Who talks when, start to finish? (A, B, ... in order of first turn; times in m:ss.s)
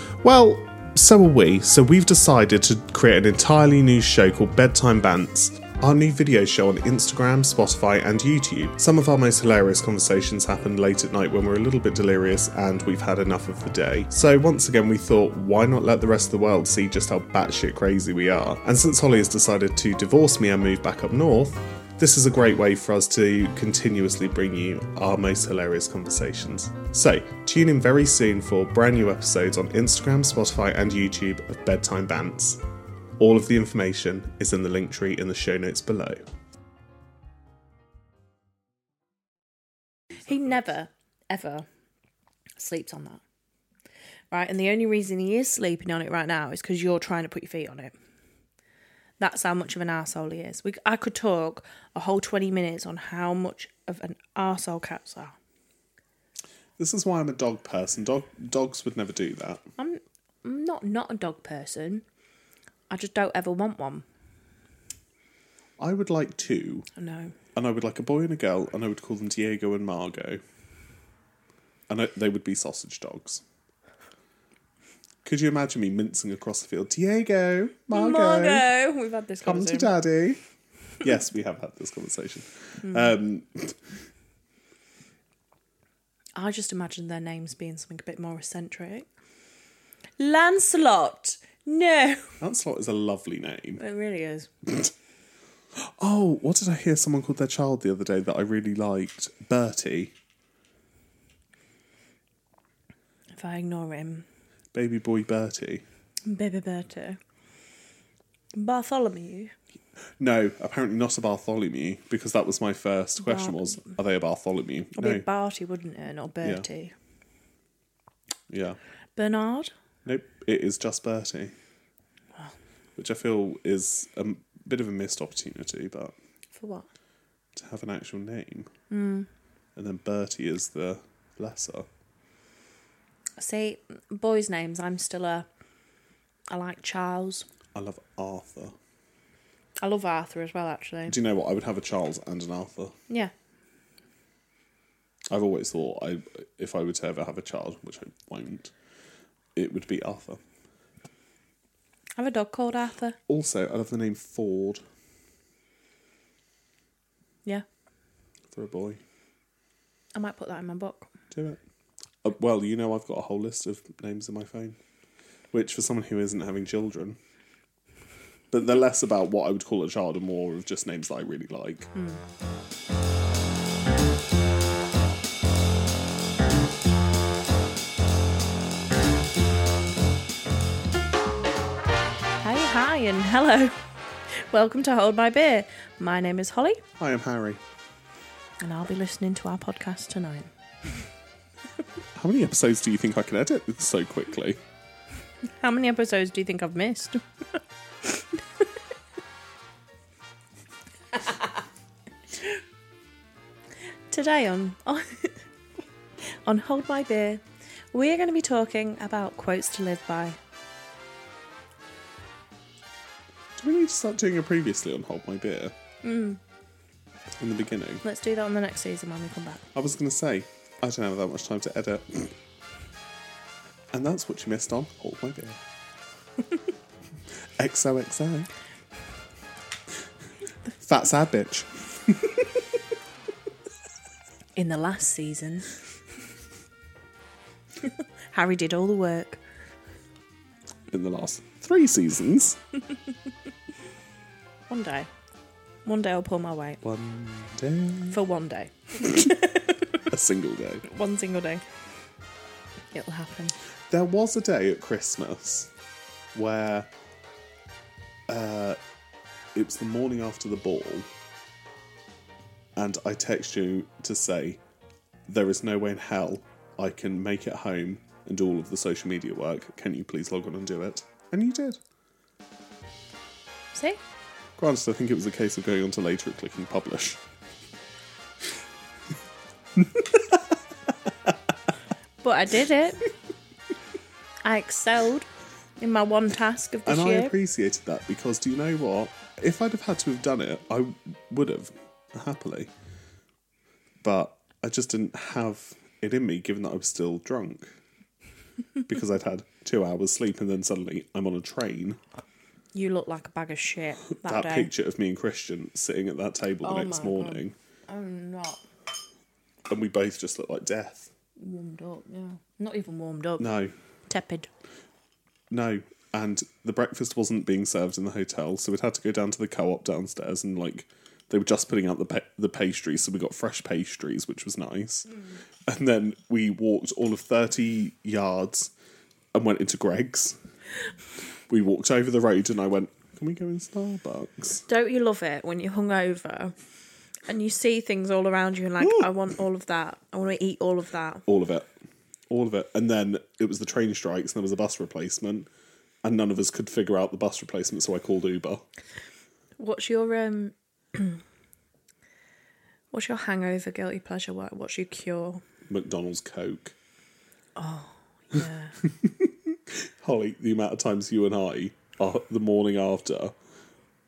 0:00.2-0:32.6 A
0:33.2-0:36.2 A
0:40.2-0:41.6 B
0:42.6-0:43.2 B
0:44.3-0:47.9 B
0:49.2-0:55.3 B
0:56.8-0:59.6 A
0:59.8-1:02.0 B
1:02.9-1:04.0 B
1:05.8-1:06.9 A
1:06.9-1:07.3 B
1:07.5-1:10.4 A
1:11.9-1:13.4 A
1:15.2-1:18.6 A
1:17.9-1:19.9 B
1:19.4-1:20.4 A
1:21.0-1:23.8 A
1:22.8-1:23.1 B
1:26.4-1:29.1 B
1:30.2-1:32.4 B
1:32.4-1:33.8 A
1:33.8-1:34.5 B
1:35.8-1:40.1 A
1:43.3-1:44.2 B
1:44.7-1:45.8 A
1:46.2-1:47.2 B
1:48.5-1:49.5 B
1:50.2-1:55.2 A
1:53.2-1:53.9 B
1:55.0-1:56.9 B
1:58.5-1:58.8 A
1:59.2-1:59.7 B
2:00.0-2:01.5 A
2:03.0-2:06.1 A
2:06.5-2:06.8 B
2:07.5-2:08.7 A
2:08.9-2:09.3 B
2:09.8-2:11.9 A
2:13.4-2:15.5 B
2:16.5-2:17.5 B
2:17.7-2:18.7 A
2:19.8-2:21.2 B
2:21.1-2:22.9 A
2:25.3-2:28.7 A
2:29.6-2:30.4 A
2:32.2-2:33.2 B
2:33.3-2:34.8 A
2:38.5-2:39.0 A
2:40.1-2:41.1 B
2:41.3-2:41.6 A
2:42.2-2:44.8 A
2:45.5-2:47.2 A
2:48.5-2:51.9 A
2:51.9-2:52.2 B
3:02.4-3:03.7 B
3:04.3-3:06.8 B
3:07.0-3:07.6 A
3:08.6-3:10.5 B
3:12.2-3:14.6 A
3:15.4-3:18.7 B
3:21.1-3:21.6 B
3:22.3-3:22.6 B
3:24.1-3:25.4 B
3:26.3-3:30.4 B
3:33.6-3:35.7 A
3:36.0-3:36.4 B
3:37.4-3:38.0 A
3:38.0-3:39.6 B
3:39.7-3:42.3 A
3:43.9-3:45.6 A
3:47.6-3:48.5 A
3:50.8-3:52.6 A
3:54.6-3:55.7 B
3:57.8-3:59.4 B
4:00.9-4:02.6 A
4:04.7-4:05.1 B
4:05.8-4:06.8 B
4:06.8-4:08.2 A
4:08.1-4:10.0 B
4:10.1-4:10.8 A
4:10.8-4:11.6 B
4:12.9-4:13.5 B
4:13.9-4:15.7 A
4:16.3-4:16.9 A
4:18.3-4:18.8 A
4:19.5-4:21.1 A
4:22.8-4:24.6 A
4:25.3-4:31.8 A
4:33.7-4:34.0 B
4:34.6-4:37.2 A
4:39.8-4:40.4 A
4:42.2-4:43.0 B
4:44.4-4:47.3 B
4:46.8-4:52.7 A
4:54.0-4:57.7 A
4:58.8-5:02.0 A
5:02.7-5:04.7 B
5:04.2-5:07.5 A
5:06.6-5:08.6 B
5:09.7-5:11.1 A
5:11.4-5:13.5 B
5:13.4-5:13.8 A
5:14.1-5:14.5 B
5:15.5-5:25.1 A
5:25.6-5:28.7 A
5:29.3-5:30.4 A
5:31.5-5:34.6 A
5:34.7-5:36.5 B
5:37.3-5:41.2 B
5:41.2-5:41.7 A
5:42.3-5:45.5 A
5:46.0-5:48.6 A
5:49.6-5:51.2 B
5:52.9-5:55.4 B
5:55.7-5:56.7 A
5:57.6-5:58.8 B
5:58.8-6:03.3 A